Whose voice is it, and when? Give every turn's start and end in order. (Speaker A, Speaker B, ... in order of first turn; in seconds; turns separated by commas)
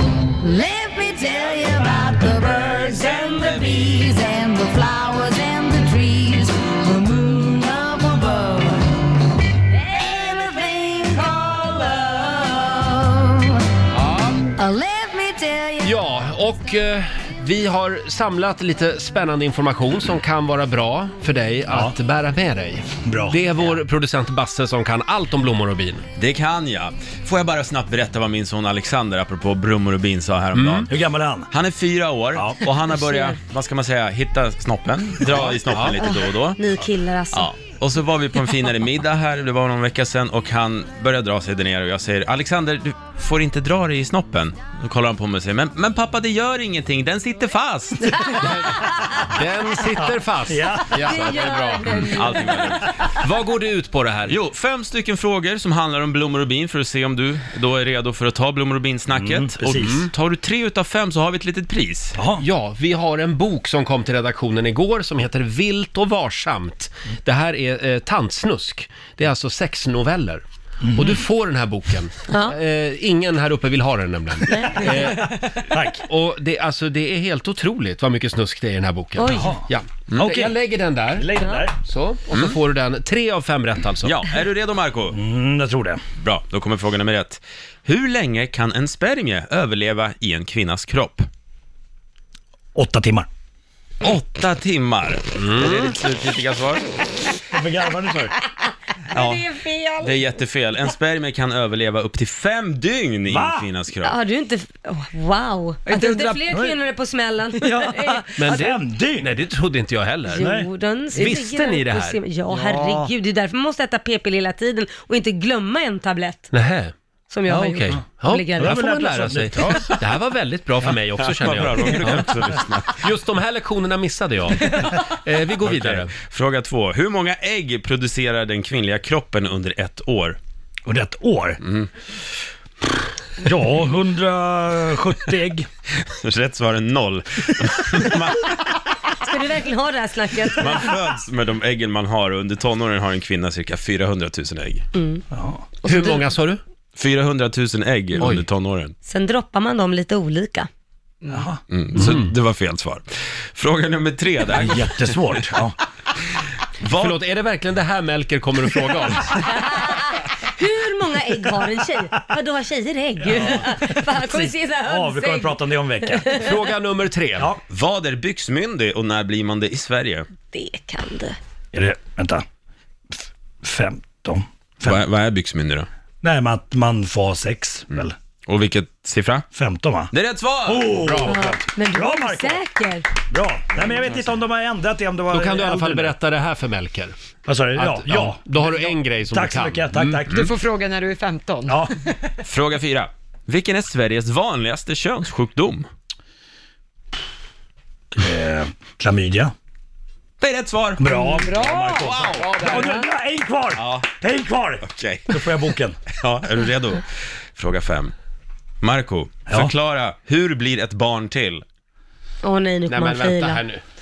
Speaker A: 0.4-8.8, Speaker B: 2.7-4.0, Speaker A: 9.8-13.6, Speaker C: 14.0-14.5, Speaker A: 14.6-15.9, Speaker C: 15.8-26.0, Speaker D: 21.7-21.9, Speaker D: 23.0-23.5, Speaker B: 26.1-30.9, Speaker C: 30.5-30.9, Speaker D: 30.9-31.5, Speaker B: 31.5-36.6, Speaker E: 32.9-33.3, Speaker C: 35.3-36.0, Speaker E: 35.9-37.5, Speaker B: 37.3-48.2, Speaker E: 48.1-49.0, Speaker C: 49.1-52.4, Speaker D: 50.5-51.4, Speaker E: 51.0-52.8, Speaker B: 51.9-53.0, Speaker C: 53.0-54.4, Speaker B: 54.3-62.2, Speaker D: 59.1-60.0, Speaker D: 62.2-62.4, Speaker C: 62.4-84.2, Speaker D: 70.9-71.1, Speaker E: 74.5-74.8, Speaker D: 75.7-76.0, Speaker E: 79.2-79.5, Speaker D: 79.3-79.7, Speaker B: 80.1-80.4, Speaker D: 80.2-80.5, Speaker D: 81.1-81.8, Speaker B: 84.0-85.2, Speaker D: 85.1-86.0, Speaker B: 86.2-91.3, Speaker D: 92.7-93.3, Speaker B: 94.0-97.0, Speaker C: 95.4-95.8, Speaker D: 97.5-98.3, Speaker E: 98.5-100.2, Speaker B: 99.1-99.4, Speaker B: 100.0-104.2, Speaker D: 103.3-103.7, Speaker E: 104.0-108.7, Speaker F: 105.8-106.6, Speaker D: 107.6-109.3, Speaker C: 108.4-110.5, Speaker E: 110.3-116.5, Speaker D: 110.4-110.7, Speaker C: 111.1-112.2, Speaker C: 116.5-116.9, Speaker E: 117.3-118.8, Speaker C: 117.5-126.1, Speaker D: 118.6-119.9, Speaker B: 121.2-123.1, Speaker B: 125.6-130.4, Speaker D: 130.8-131.6, Speaker B: 131.6-131.9, Speaker D: 133.4-135.6, Speaker B: 136.0-138.8, Speaker E: 139.2-141.0, Speaker B: 140.6-144.8, Speaker E: 144.9-145.2, Speaker D: 145.3-145.6, Speaker E: 145.8-146.2, Speaker C: 145.8-146.6, Speaker B: 146.9-148.9, Speaker C: 148.2-148.4, Speaker E: 149.1-150.7, Speaker D: 151.3-151.6, Speaker B: 151.7-155.1, Speaker C: 151.9-152.3, Speaker D: 154.5-155.8, Speaker B: 156.7-157.2, Speaker C: 156.9-159.6, Speaker E: 159.4-166.5, Speaker D: 163.3-163.7, Speaker D: 164.2-166.2, Speaker C: 166.3-167.5, Speaker B: 167.7-170.3, Speaker E: 170.5-171.4, Speaker D: 171.7-172.4, Speaker D: 173.6-175.0, Speaker B: 174.8-175.9, Speaker D: 176.2-178.1, Speaker B: 178.4-179.4, Speaker D: 179.5-180.1, Speaker B: 180.1-181.0, Speaker D: 180.6-182.6, Speaker C: 181.0-181.5, Speaker E: 181.2-183.1, Speaker D: 183.3-186.1, Speaker C: 185.3-187.2, Speaker D: 187.4-190.6, Speaker C: 187.7-190.5, Speaker F: 190.3-192.2, Speaker D: 191.7-191.9, Speaker B: 192.4-195.9, Speaker D: 198.1-199.5, Speaker B: 200.4-202.7, Speaker D: 201.0-206.0, Speaker F: 201.1-202.8, Speaker C: 202.4-202.9, Speaker B: 203.8-204.1, Speaker B: 204.8-205.5, Speaker B: 206.1-208.1, Speaker B: 208.8-211.6, Speaker D: 209.5-209.7, Speaker E: 212.4-213.6, Speaker C: 212.9-213.8